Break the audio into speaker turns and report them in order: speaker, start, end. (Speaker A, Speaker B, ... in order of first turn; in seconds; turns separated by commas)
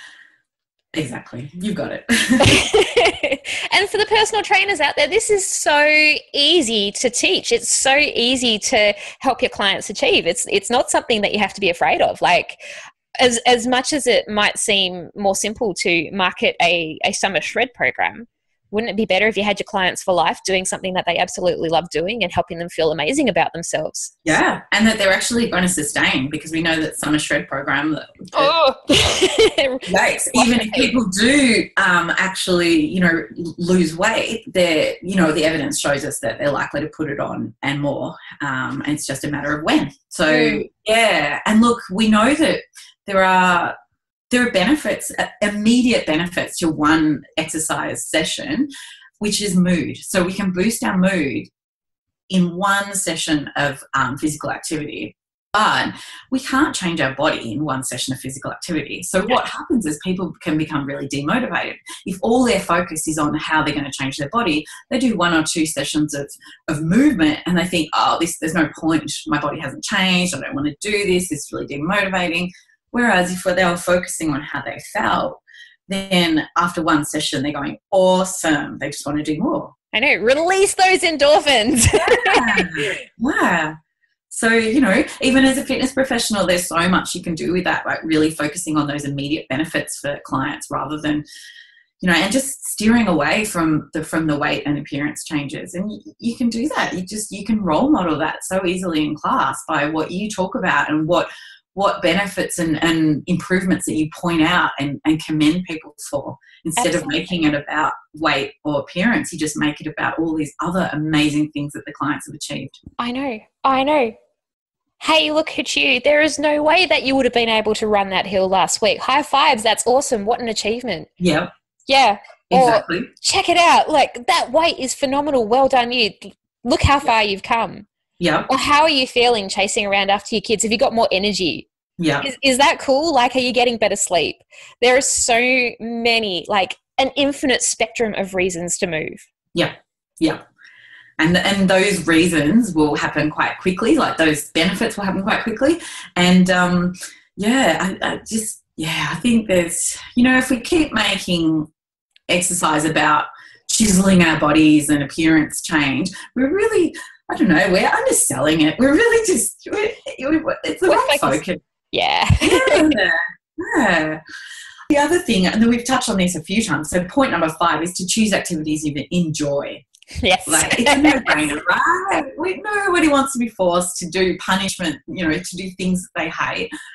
Speaker A: 0.9-2.6, Speaker B: 2.4-12.6, Speaker B: 13.2-24.1, Speaker A: 24.2-28.5, Speaker B: 28.3-30.9, Speaker A: 29.9-43.7, Speaker B: 40.3-40.6, Speaker A: 44.3-48.7, Speaker A: 49.2-51.5, Speaker A: 52.3-79.7, Speaker B: 79.9-83.0, Speaker A: 82.0-83.7, Speaker A: 84.3-91.2, Speaker A: 92.0-112.8, Speaker B: 106.8-107.4, Speaker B: 113.0-114.2, Speaker B: 115.0-121.1, Speaker A: 121.2-121.5, Speaker B: 121.9-127.9, Speaker A: 122.5-123.1, Speaker A: 128.2-128.5, Speaker B: 128.5-131.7, Speaker A: 132.0-132.3, Speaker B: 132.2-139.3, Speaker A: 139.5-140.4, Speaker A: 141.2-151.7, Speaker A: 152.3-161.6, Speaker B: 160.9-163.0, Speaker A: 162.4-164.2, Speaker A: 164.9-169.8, Speaker B: 170.2-171.4, Speaker A: 170.5-176.7